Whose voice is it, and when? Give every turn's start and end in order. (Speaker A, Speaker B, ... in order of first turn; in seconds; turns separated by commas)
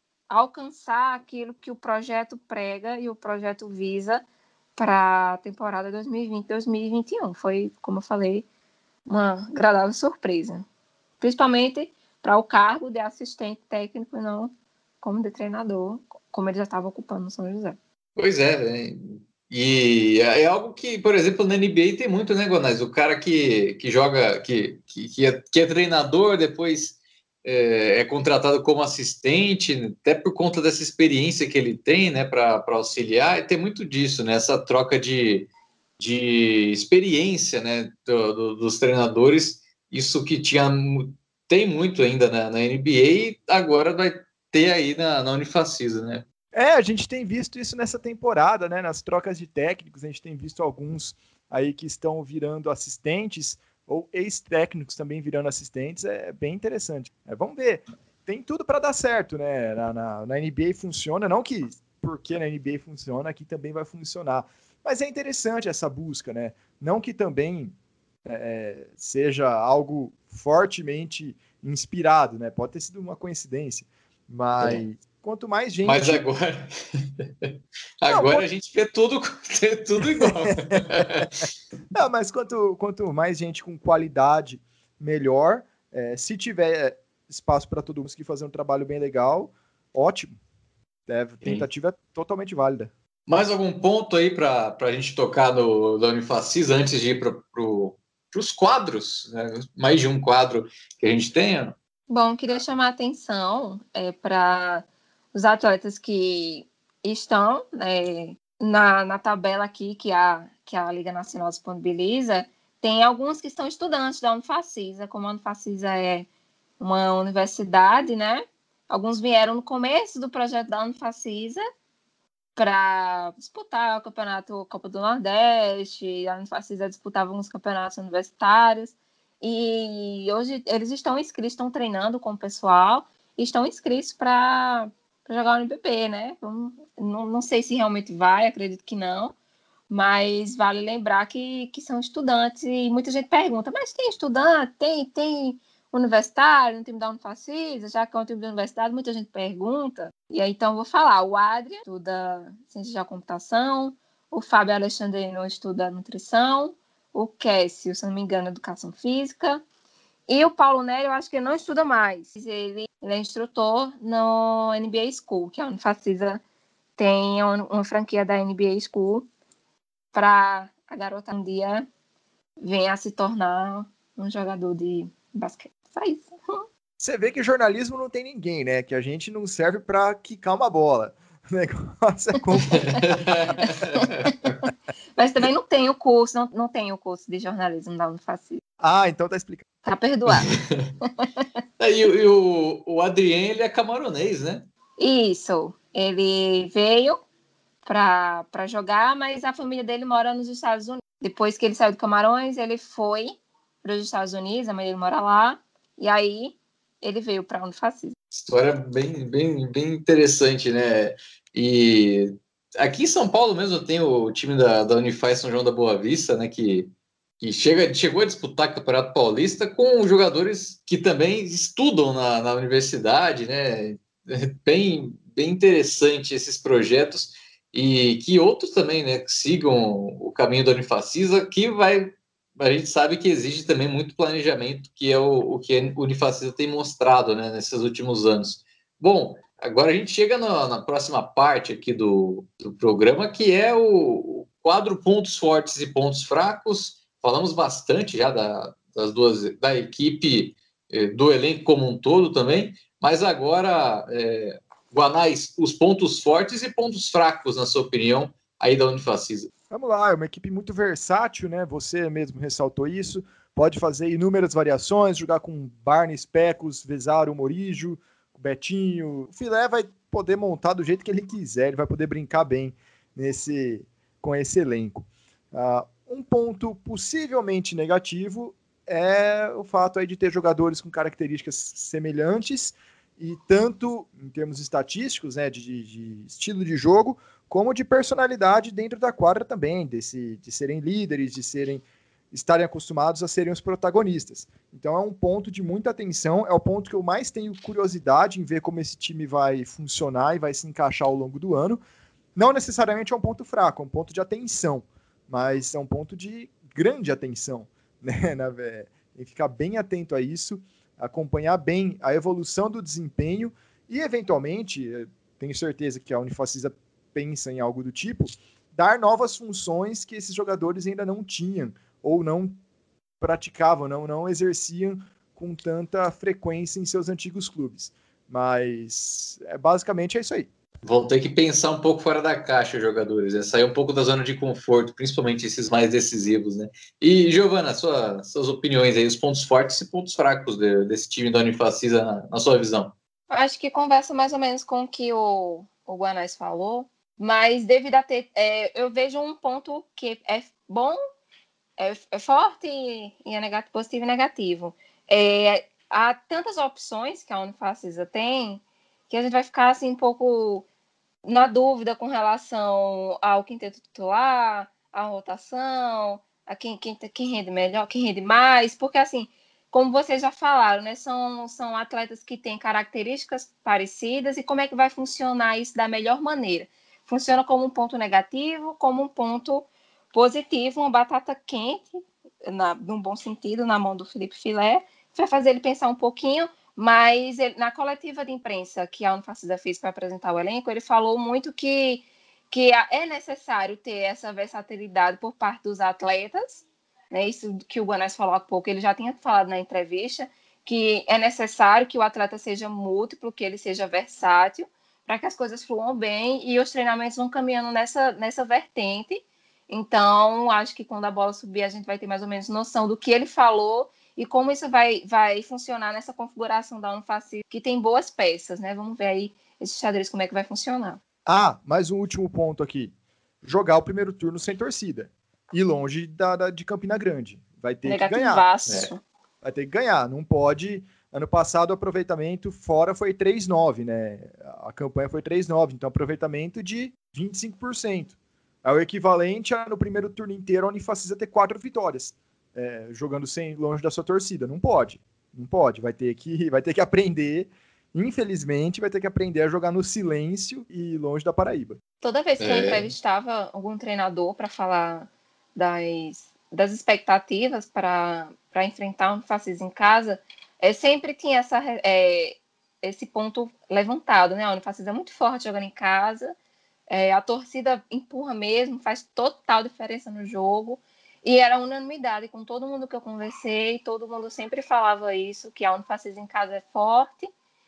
Speaker A: 0.3-4.2, Speaker A: 4.8-8.4, Speaker A: 9.1-10.6, Speaker A: 11.2-14.5, Speaker A: 15.0-17.8, Speaker B: 18.1-46.2, Speaker C: 46.5-67.7, Speaker C: 68.2-76.2, Speaker B: 74.6-74.8, Speaker B: 75.8-81.4, Speaker C: 78.1-78.5, Speaker C: 80.0-81.0, Speaker C: 81.9-90.4, Speaker C: 91.1-92.9, Speaker B: 93.3-101.8, Speaker A: 102.1-116.3, Speaker A: 116.8-121.6, Speaker A: 122.5-139.3, Speaker A: 139.9-159.6, Speaker A: 160.3-166.4, Speaker A: 167.0-169.3, Speaker A: 170.1-171.8, Speaker A: 172.6-176.6, Speaker C: 177.0-183.2, Speaker B: 182.7-184.3, Speaker A: 183.6-188.6, Speaker C: 188.8-189.7, Speaker A: 189.8-190.5, Speaker B: 190.3-190.9, Speaker A: 191.0-191.4, Speaker B: 191.8-194.7, Speaker A: 195.0-197.2, Speaker A: 197.8-208.1, Speaker B: 208.3-259.5, Speaker C: 259.7-301.8, Speaker C: 302.3-322.6, Speaker C: 323.2-330.5, Speaker B: 330.8-342.9, Speaker A: 343.3-351.0, Speaker A: 351.8-360.7, Speaker A: 361.2-421.0, Speaker C: 421.2-428.5, Speaker A: 427.8-429.0, Speaker C: 429.4-451.8, Speaker A: 452.0-466.3, Speaker B: 452.4-452.9, Speaker A: 466.9-477.3